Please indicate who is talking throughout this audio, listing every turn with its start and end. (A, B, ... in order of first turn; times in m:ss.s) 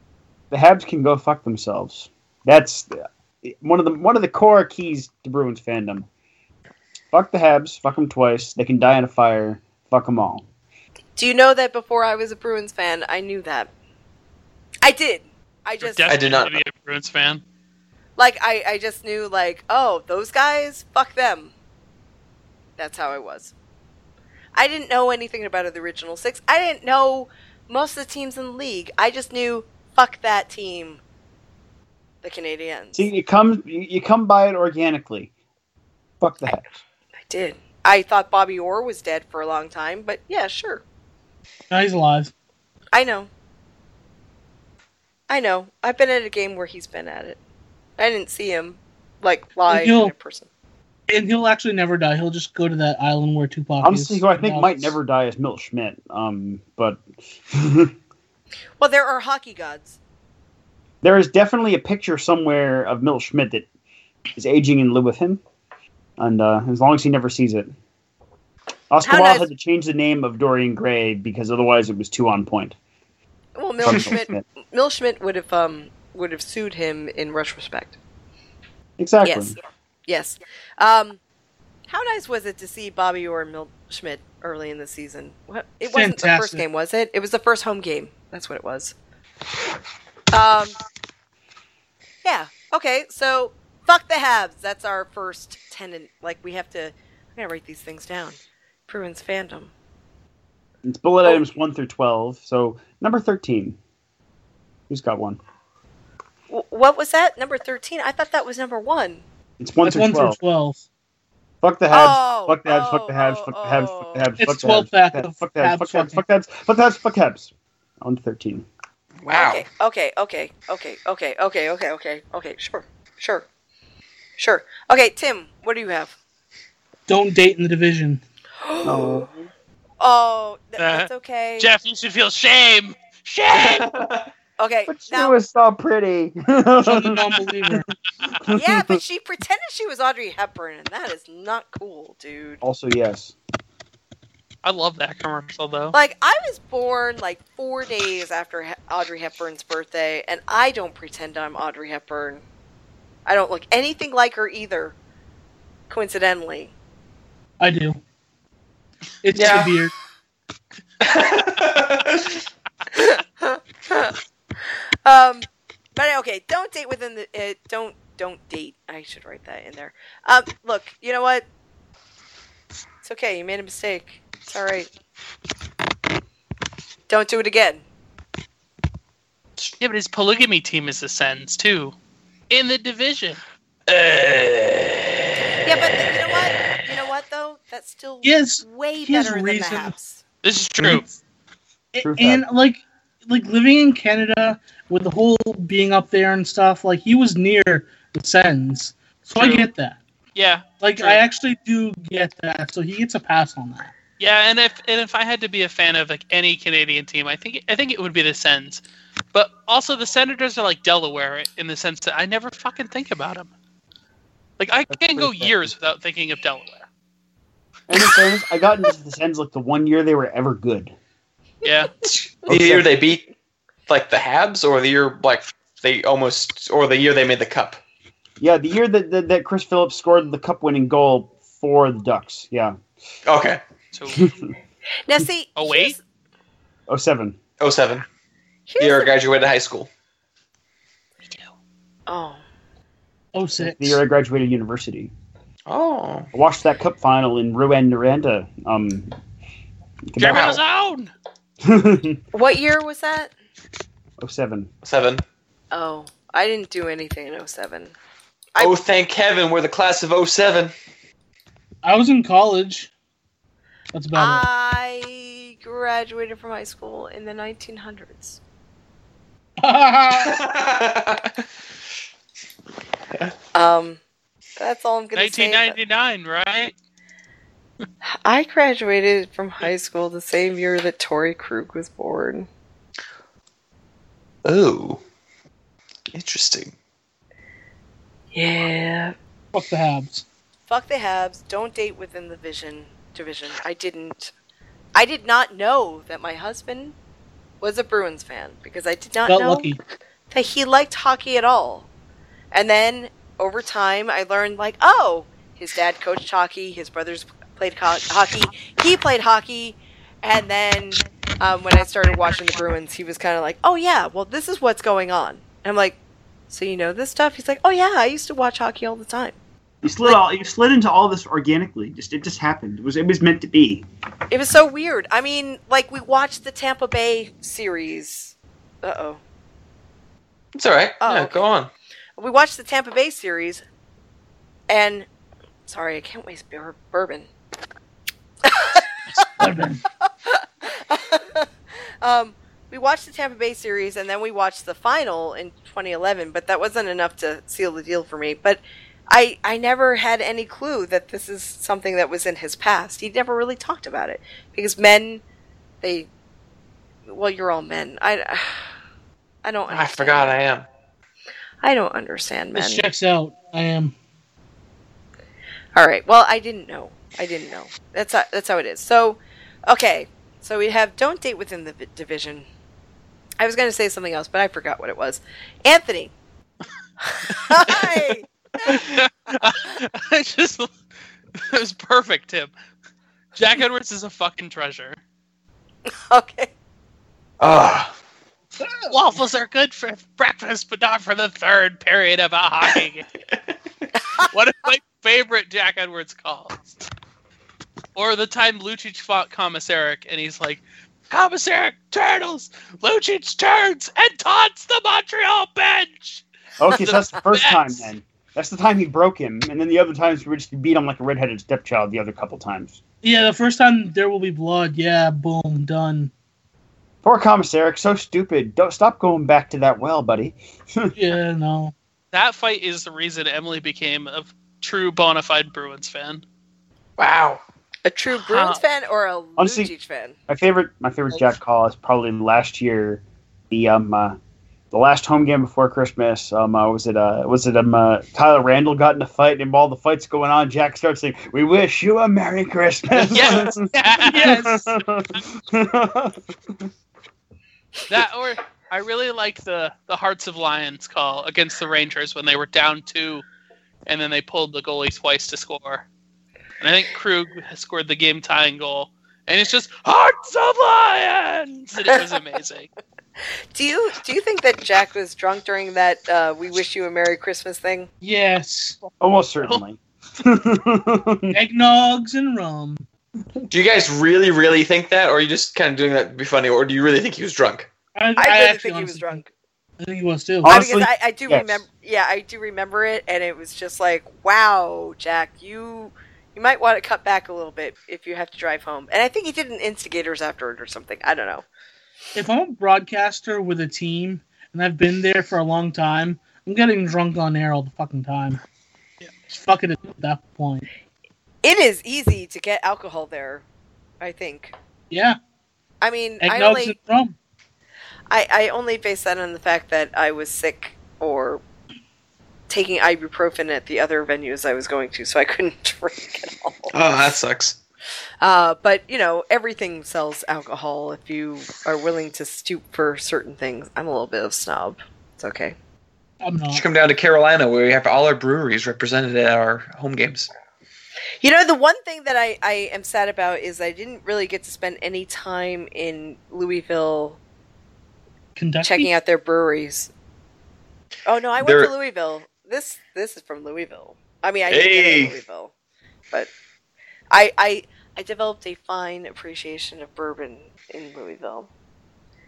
0:00.5-0:06.1 A
0:07.1-0:10.4 A
0:11.2-0:13.7 B
0:14.8-0:16.2 B
0:15.8-0:17.4 C
0:16.1-0:16.6 D
0:18.2-0:21.5 B
0:22.8-0:23.5 B
0:24.5-0:31.0 B
0:32.2-0:33.1 B
0:32.9-0:35.3 A
0:36.2-0:36.7 A
0:37.3-0:40.8 B
0:41.7-0:42.3 E
0:42.9-0:43.3 B
0:45.3-0:47.4 B
0:48.0-0:50.5 B
0:49.7-0:50.1 E
0:51.1-0:54.9 E
0:53.8-0:57.9 A
0:58.8-1:00.0 B
1:01.0-1:03.6 A
1:04.3-1:05.4 A
1:06.2-1:07.7 A
1:08.9-1:12.8 A
1:09.0-1:09.5 B
1:13.6-1:18.0 B
1:13.8-1:14.4 A
1:19.0-1:19.6 A
1:19.2-1:21.2 B
1:21.9-1:28.9 B
1:25.9-1:26.6 E
1:30.3-1:30.8 B
1:32.2-1:39.7 B
1:40.8-1:43.8 A
1:44.9-1:45.4 A
1:46.5-1:49.2 B
1:49.6-1:50.4 A
1:49.8-1:50.8 E
1:51.6-1:58.7 A
1:51.9-1:54.3 B
1:54.4-1:56.2 E
1:59.2-1:59.6 D
1:59.3-2:03.4 B
2:04.4-2:06.1 B
2:07.1-2:08.2 E
2:08.6-2:09.3 B
2:08.8-2:09.5 A
2:10.0-2:11.7 B
2:10.8-2:13.9 C
2:13.5-2:14.3 D
2:14.6-2:15.4 B
2:14.9-2:17.8 A
2:16.8-2:17.9 E
2:18.4-2:19.0 A
2:18.5-2:22.6 B
2:22.6-2:23.3 A
2:24.6-2:26.0 C
2:25.9-2:32.4 B
2:33.2-2:35.0 B
2:35.9-2:36.7 B
2:37.6-2:38.0 E
2:39.2-2:39.9 E
2:39.3-2:39.8 D
2:41.0-2:42.4 D
2:42.9-2:51.4 B
2:53.0-2:54.9 B
2:57.1-2:57.8 B
2:59.8-3:02.0 C
3:02.5-3:03.4 C
3:03.9-3:05.1 D
3:05.6-3:10.2 B
3:08.2-3:09.9 E
3:10.4-3:11.0 C
3:11.9-3:20.0 E
3:12.0-3:12.4 A
3:19.4-3:19.7 C
3:20.3-3:21.2 C
3:20.8-3:23.9 E
3:24.2-3:28.8 C
3:29.3-3:33.5 C
3:34.6-3:36.9 C
3:34.9-3:35.7 A
3:37.9-3:40.9 A
3:41.6-3:41.9 C
3:42.0-3:43.3 D
3:42.5-3:42.9 A
3:43.9-3:47.8 D
3:48.4-3:52.8 A
3:53.2-3:53.6 D
3:53.9-3:54.3 C
3:54.1-3:54.5 A
3:55.0-3:56.0 B
3:55.6-3:56.0 C
3:56.9-3:57.4 A
3:57.6-3:58.0 D
3:58.7-3:59.1 B
3:58.8-3:59.9 D
4:02.1-4:02.4 B
4:03.3-4:04.0 E
4:03.6-4:05.1 A
4:05.7-4:06.3 D
4:06.3-4:09.1 A
4:10.1-4:10.6 A
4:10.2-4:10.6 D
4:10.2-4:11.1 C
4:11.6-4:12.2 A
4:12.3-4:13.3 B
4:14.2-4:14.7 A
4:14.8-4:15.2 D
4:15.7-4:17.9 B
4:18.6-4:20.7 D
4:21.8-4:22.9 E
4:23.9-4:24.4 E
4:24.1-4:28.4 B
4:29.6-4:30.4 E
4:30.1-4:31.4 D
4:33.5-4:34.0 B
4:34.6-4:35.8 B
4:35.1-4:36.7 C
4:38.0-4:42.5 B
4:44.4-4:45.0 D
4:46.1-4:46.7 D
4:48.3-4:49.1 B
4:49.5-4:50.2 E
4:50.7-4:54.3 B
4:54.9-4:56.9 B
4:57.6-4:59.7 B
4:59.3-4:59.8 E
5:00.3-5:01.9 B
5:02.5-5:16.0 B
5:16.5-5:19.4 B
5:19.8-5:23.8 A
5:24.3-5:29.2 B
5:30.6-5:31.7 D
5:31.0-5:31.4 B
5:32.2-5:33.6 B
5:34.7-5:35.1 B
5:35.7-5:37.3 B
5:38.4-5:39.2 B
5:39.2-5:39.8 E
5:40.2-5:41.5 B
5:42.0-5:55.2 B
5:55.8-5:56.1 B
5:57.1-5:58.6 B
5:59.4-6:00.4 B
5:59.7-6:00.7 D
6:01.6-6:02.8 B
6:02.5-6:04.0 E
6:05.7-6:12.5 B
6:13.4-6:16.1 B
6:17.0-6:18.9 B
6:18.6-6:20.7 C
6:21.3-6:22.5 C
6:23.4-6:25.0 C
6:26.1-6:26.5 B
6:27.4-6:27.9 D
6:28.9-6:33.1 C
6:34.2-6:36.6 C
6:37.9-6:47.9 C
6:46.6-6:52.8 A
6:53.0-6:56.1 E
6:57.0-7:00.9 A
7:01.0-7:01.7 E
7:02.1-7:06.2 C
7:07.0-7:07.4 D
7:07.8-7:10.2 B
7:08.1-7:08.6 C
7:09.4-7:09.7 A
7:10.3-7:14.2 A
7:14.7-7:26.7 A
7:23.1-7:24.5 C
7:24.1-7:24.7 E
7:27.9-7:33.2 C
7:33.8-7:35.8 C
7:36.6-7:42.7 C
7:43.5-7:47.9 B
7:48.0-7:48.8 E
7:49.0-7:51.4 A
7:51.3-7:52.8 E
7:53.5-7:57.7 D
7:57.9-7:59.2 E
7:58.2-7:59.3 B
7:59.8-8:00.6 E
8:00.4-8:01.6 A
8:00.4-8:11.4 B
8:12.1-8:18.4 E
8:19.3-8:20.7 E
8:21.4-8:23.4 B
8:24.0-8:24.5 B
8:24.9-8:25.2 E
8:25.8-8:26.8 B
8:26.2-8:27.1 E
8:28.1-8:31.4 B
8:32.5-8:36.7 B
8:36.7-8:37.6 D
8:38.2-8:45.6 B
8:46.2-8:46.6 E
8:46.5-8:50.3 D
8:51.2-8:57.2 B
8:58.4-8:58.9 E
8:58.6-8:59.9 B
9:01.0-9:05.5 B
9:01.4-9:01.7 D
9:04.5-9:05.2 D
9:07.1-9:11.5 B